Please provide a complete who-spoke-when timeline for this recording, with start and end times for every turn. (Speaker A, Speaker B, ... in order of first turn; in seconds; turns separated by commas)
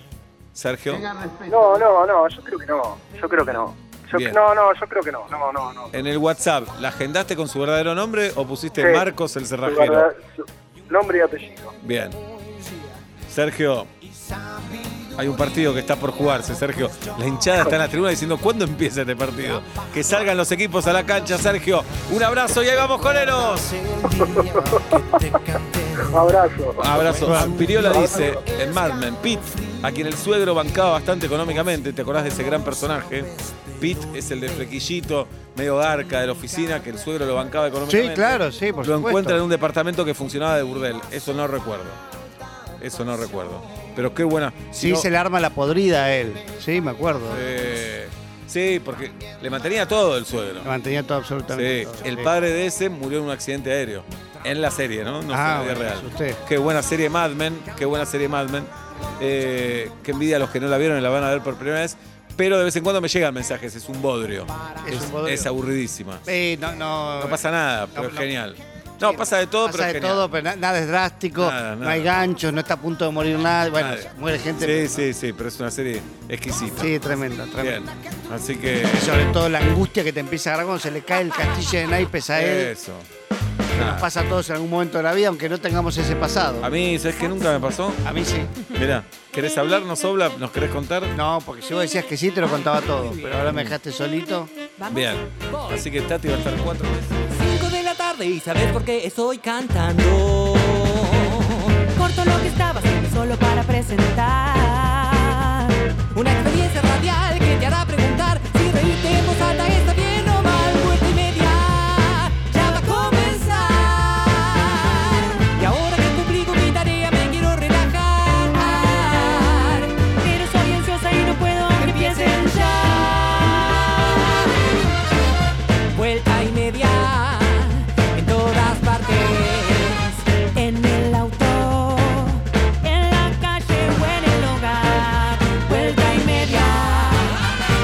Speaker A: 0.6-1.2, Speaker B: 1.4-5.9, Speaker A: 4.1-4.4, Speaker A: 5.9-10.1, Speaker B: 8.8-9.1, Speaker B: 9.7-11.8, Speaker A: 11.8-12.2, Speaker A: 13.3-13.9, Speaker A: 15.2-23.9, Speaker B: 24.2-25.2, Speaker B: 26.0-26.9, Speaker A: 26.8-42.0, Speaker C: 27.1-28.1, Speaker B: 27.9-28.4, Speaker C: 37.9-39.4, Speaker A: 42.8-45.1, Speaker C: 44.8-47.4, Speaker A: 47.3-50.7, Speaker C: 50.6-52.3, Speaker A: 51.5-64.5, Speaker C: 55.3-56.4, Speaker C: 64.8-65.5, Speaker A: 65.1-66.3, Speaker C: 66.3-67.4, Speaker A: 67.2-70.2, Speaker C: 68.0-68.3, Speaker C: 69.0-75.1, Speaker A: 71.4-72.1, Speaker A: 73.8-74.1, Speaker A: 74.6-76.9, Speaker C: 76.8-77.9, Speaker A: 77.6-79.2, Speaker C: 78.9-82.7, Speaker A: 82.3-83.1, Speaker C: 83.7-86.7, Speaker A: 83.7-84.1, Speaker A: 86.6-88.1, Speaker C: 88.0-88.6, Speaker A: 88.7-91.2, Speaker C: 91.1-94.5, Speaker A: 93.5-93.8, Speaker D: 94.8-95.9, Speaker A: 94.9-97.2, Speaker D: 97.3-124.6, Speaker D: 125.9-137.5